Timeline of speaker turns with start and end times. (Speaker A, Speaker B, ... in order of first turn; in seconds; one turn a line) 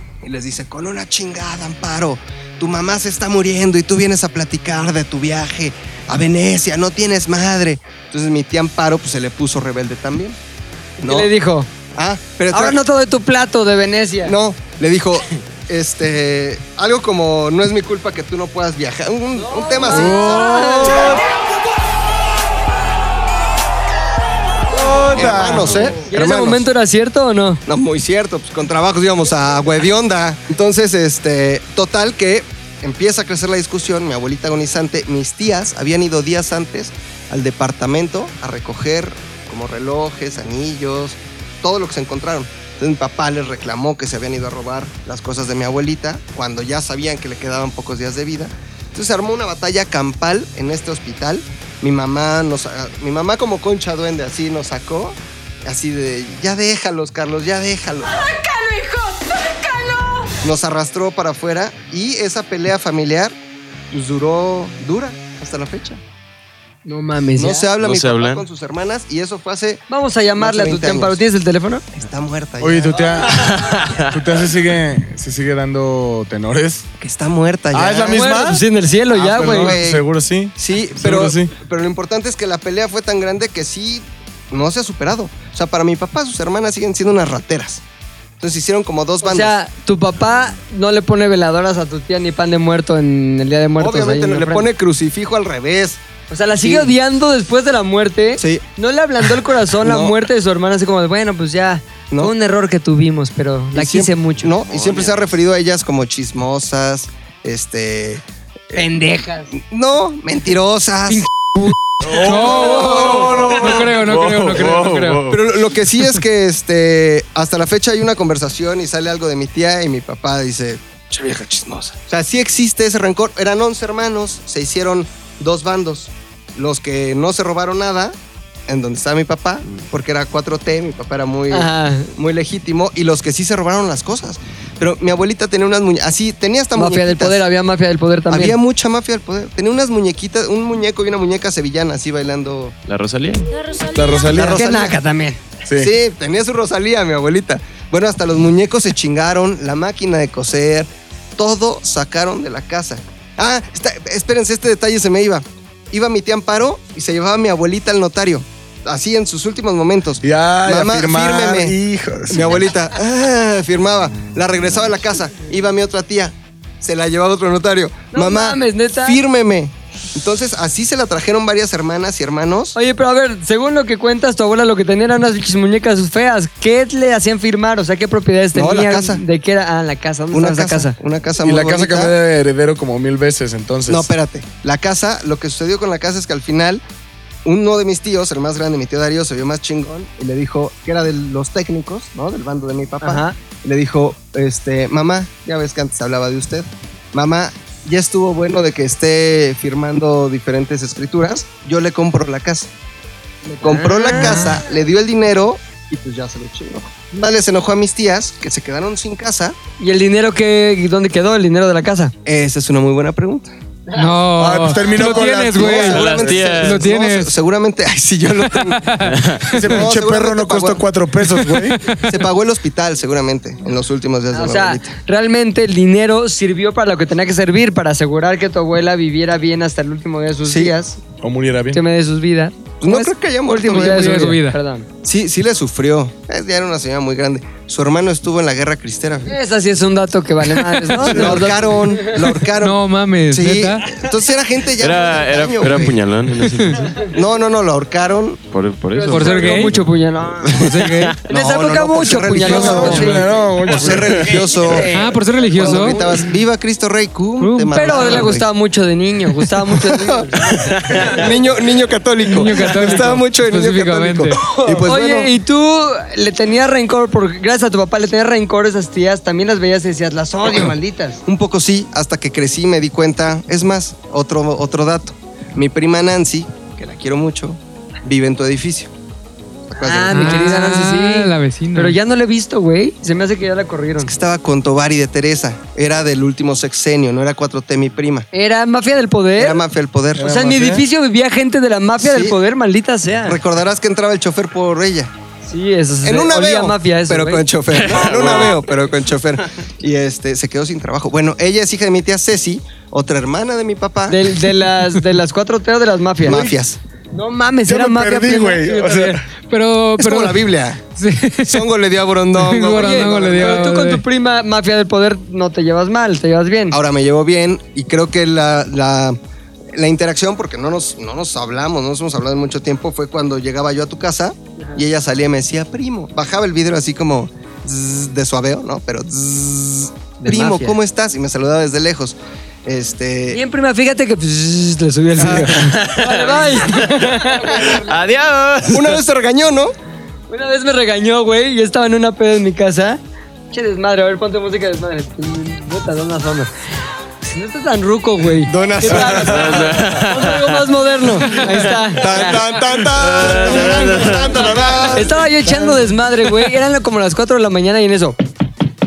Speaker A: 0.2-10.4
Speaker A: 11.0-11.3
Speaker B: 11.0-11.7
Speaker A: 11.9-12.8
Speaker B: 12.5-14.3
Speaker A: 14.2-21.3
Speaker B: 19.4-21.2
Speaker C: 19.9-21.2
Speaker C: 24.7-26.0
Speaker B: 24.7-27.6
Speaker A: 25.0-26.7
Speaker A: 27.7-58.3
Speaker B: 58.1-60.4
Speaker A: 60.4-63.3
Speaker A: 63.9-66.0
Speaker B: 66.8-67.7
Speaker A: 67.4-69.8
Speaker D: 67.8-68.4
Speaker B: 69.9-71.8
Speaker A: 70.4-71.2
Speaker A: 71.9-73.5
Speaker C: 72.6-73.5
Speaker D: 73.3-74.2
Speaker C: 74.1-76.8
Speaker A: 77.0-78.3
Speaker C: 77.7-78.6
Speaker B: 78.1-79.8
Speaker A: 79.2-80.1
Speaker C: 79.2-81.5
Speaker A: 80.6-87.8
Speaker A: 88.4-89.5
Speaker B: 89.2-94.7
Speaker A: 93.8-96.0
Speaker B: 96.3-104.5
Speaker A: 96.6-96.9
Speaker A: 98.4-98.6
Speaker A: 99.8-100.2
Speaker A: 103.7-108.8
Speaker D: 104.6-105.2
Speaker B: 108.7-109.5
Speaker A: 109.5-111.3
Speaker E: 111.1-115.3
Speaker C: 112.0-115.4
Speaker A: 112.5-113.9
Speaker B: 112.6-113.3
Speaker D: 114.1-114.8
Speaker A: 115.3-128.2
Speaker A: 128.7-137.4
Speaker B: 131.5-132.1
Speaker B: 136.8-138.6
Speaker A: 138.3-142.8
Speaker D: 142.9-143.8
Speaker C: 143.9-144.6
Speaker A: 144.3-145.0
Speaker B: 144.3-145.4
Speaker A: 145.7-161.8
Speaker C: 160.2-162.7
Speaker A: 162.3-172.8
Speaker B: 168.1-169.2
Speaker B: 172.8-181.0
Speaker A: 178.5-179.2
Speaker A: 180.3-182.1
Speaker C: 181.4-184.1
Speaker A: 183.9-186.8
Speaker A: 187.4-202.7
Speaker B: 193.0-193.4
Speaker B: 203.4-204.6
Speaker A: 203.6-209.6
Speaker E: 204.2-204.6
Speaker B: 209.8-212.1
Speaker A: 212.2-213.5
Speaker E: 213.9-217.3
Speaker C: 214.4-215.9
Speaker A: 214.9-219.0
Speaker D: 215.7-216.8
Speaker E: 218.5-219.3
Speaker D: 219.0-219.5
Speaker C: 219.5-221.8
Speaker A: 219.6-220.8
Speaker E: 221.4-222.2
Speaker A: 222.0-224.9
Speaker B: 224.3-231.0
Speaker A: 230.4-230.7
Speaker C: 231.2-231.8
Speaker B: 231.7-234.9
Speaker A: 232.8-234.3
Speaker E: 233.7-234.6
Speaker A: 235.0-239.4
Speaker B: 239.3-242.2
Speaker A: 240.9-246.0
Speaker E: 242.6-243.9
Speaker D: 244.8-247.0
Speaker A: 247.0-248.4
Speaker D: 248.5-249.8
Speaker B: 248.9-253.4
Speaker E: 249.1-249.7
Speaker E: 250.5-251.2
Speaker A: 251.3-254.9
Speaker C: 252.4-254.4
Speaker B: 254.2-256.2
Speaker E: 254.9-256.0
Speaker A: 255.5-258.5
Speaker E: 257.4-258.3
Speaker B: 257.7-260.6
Speaker A: 259.7-265.3
Speaker D: 260.6-261.3
Speaker E: 262.3-264.4
Speaker B: 264.7-271.2
Speaker A: 271.3-278.9
Speaker A: 279.7-280.5
Speaker B: 279.8-284.1
Speaker E: 280.1-282.0
Speaker A: 284.0-288.3
Speaker B: 288.3-289.6
Speaker A: 289.4-290.5
Speaker C: 290.2-290.9
Speaker B: 290.2-293.4
Speaker A: 292.0-292.4
Speaker A: 293.2-295.1
Speaker B: 295.5-297.5
Speaker A: 296.0-304.4
Speaker D: 297.7-298.6
Speaker B: 304.1-306.5
Speaker A: 306.2-306.8
Speaker C: 306.3-306.6
Speaker B: 307.1-309.2
Speaker C: 307.7-309.2
Speaker E: 309.5-311.7
Speaker A: 310.0-310.8
Speaker A: 311.4-313.7
Speaker E: 312.4-314.0
Speaker B: 312.7-316.8
Speaker A: 316.7-319.2
Speaker A: 319.7-333.4
Speaker B: 330.2-330.8
Speaker B: 333.3-338.0
Speaker A: 335.2-335.7
Speaker D: 335.3-339.0
Speaker A: 338.6-339.7
Speaker B: 340.3-343.0
Speaker B: 343.5-346.5
Speaker B: 347.2-352.4
Speaker A: 348.4-350.1
Speaker D: 349.2-350.6
Speaker A: 351.8-355.9
Speaker D: 352.9-354.9
Speaker B: 354.9-358.2